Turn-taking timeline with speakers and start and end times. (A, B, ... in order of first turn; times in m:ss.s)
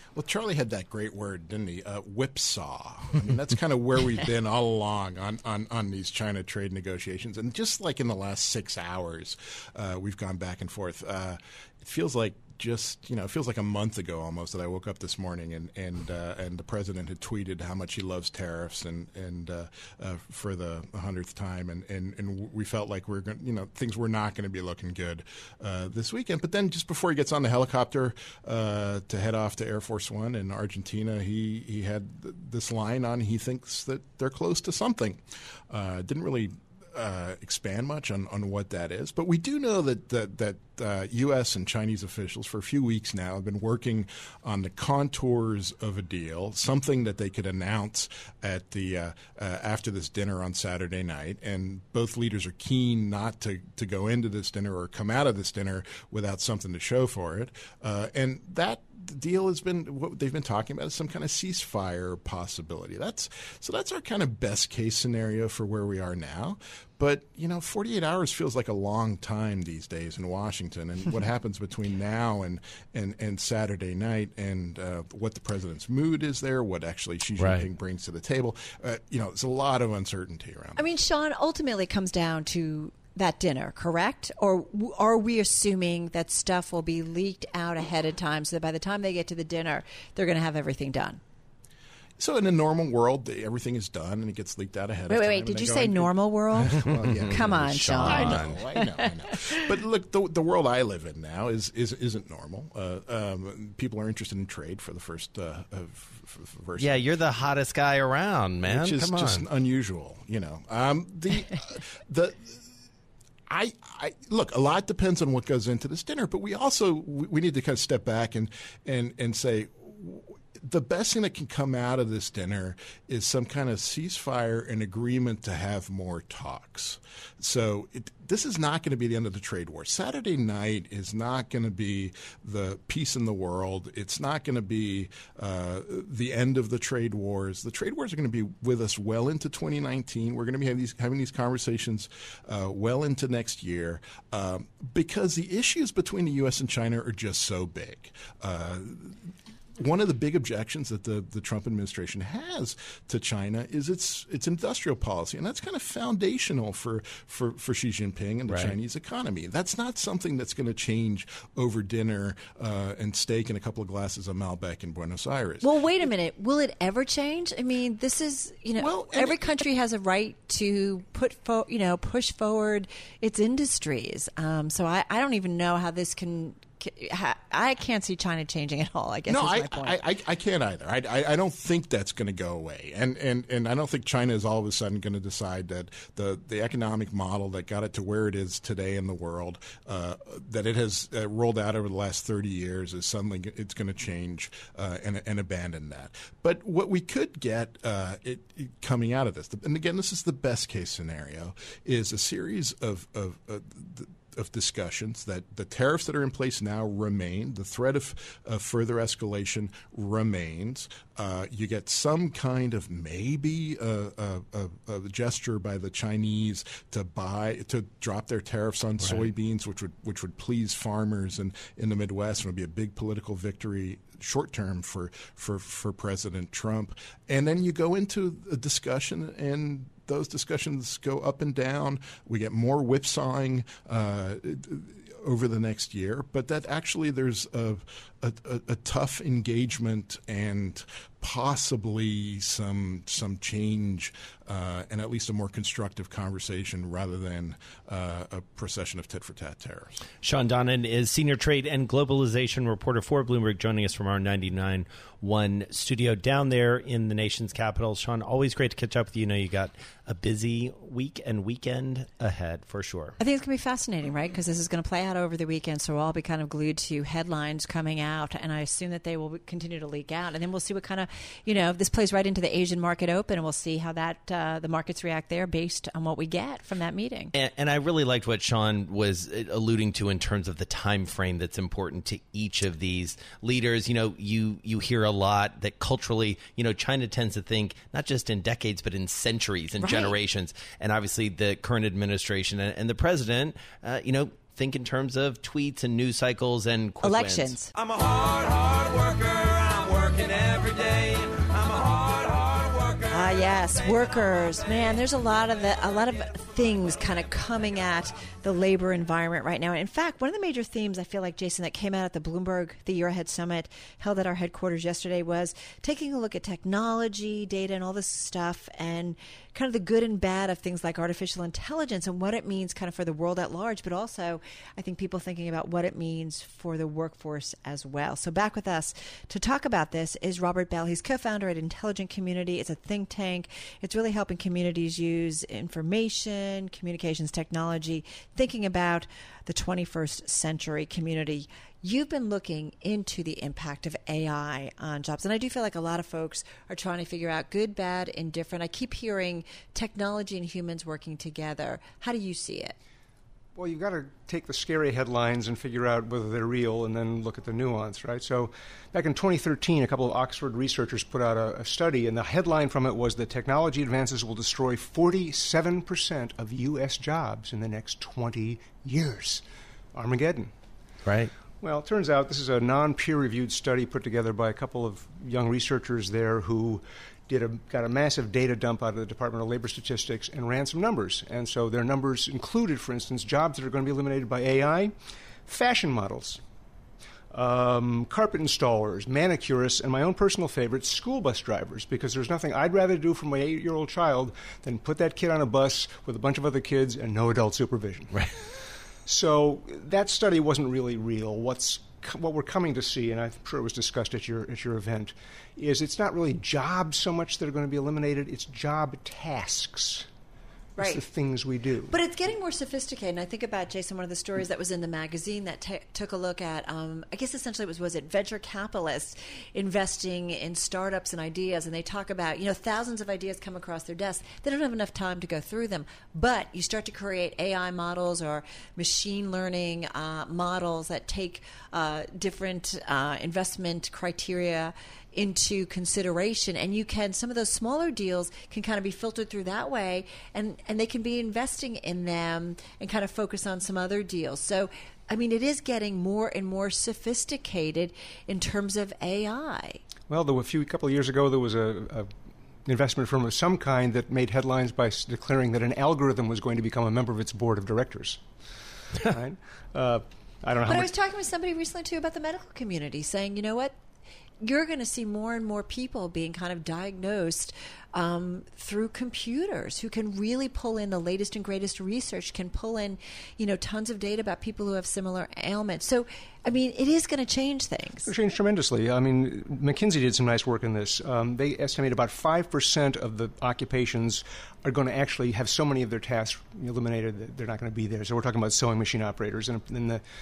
0:00.1-1:20.8 A
1:17.4-1:17.6 B
1:20.8-1:31.2 C
1:32.2-1:47.2 A
1:35.1-1:39.6 C
1:36.9-1:38.6 B
1:46.8-1:49.4 B
1:48.6-1:52.6 A
1:53.5-2:45.7 A
2:38.5-2:38.7 B
2:45.6-3:00.0 C
2:48.8-2:49.6 A
2:59.3-4:10.0 A
4:10.2-4:23.2 B
4:23.2-4:37.3 C
4:37.3-4:57.6 B
4:49.8-4:50.1 C
4:57.0-4:57.7 C
4:57.8-5:03.1 D
5:03.1-5:52.8 C
5:53.6-6:09.4 E
6:09.9-6:10.5 E
6:11.0-6:11.3 B
6:11.6-6:24.9 E
6:25.5-6:26.4 E
6:27.3-6:38.2 E
6:39.0-6:50.0 E
6:50.8-6:51.0 C
6:50.8-6:51.9 E
6:51.9-7:29.8 C
7:30.1-7:32.1 E
7:32.6-7:38.2 E
7:39.0-7:40.9 E
7:40.6-7:43.8 C
7:44.4-7:58.1 C
7:58.0-8:10.0 E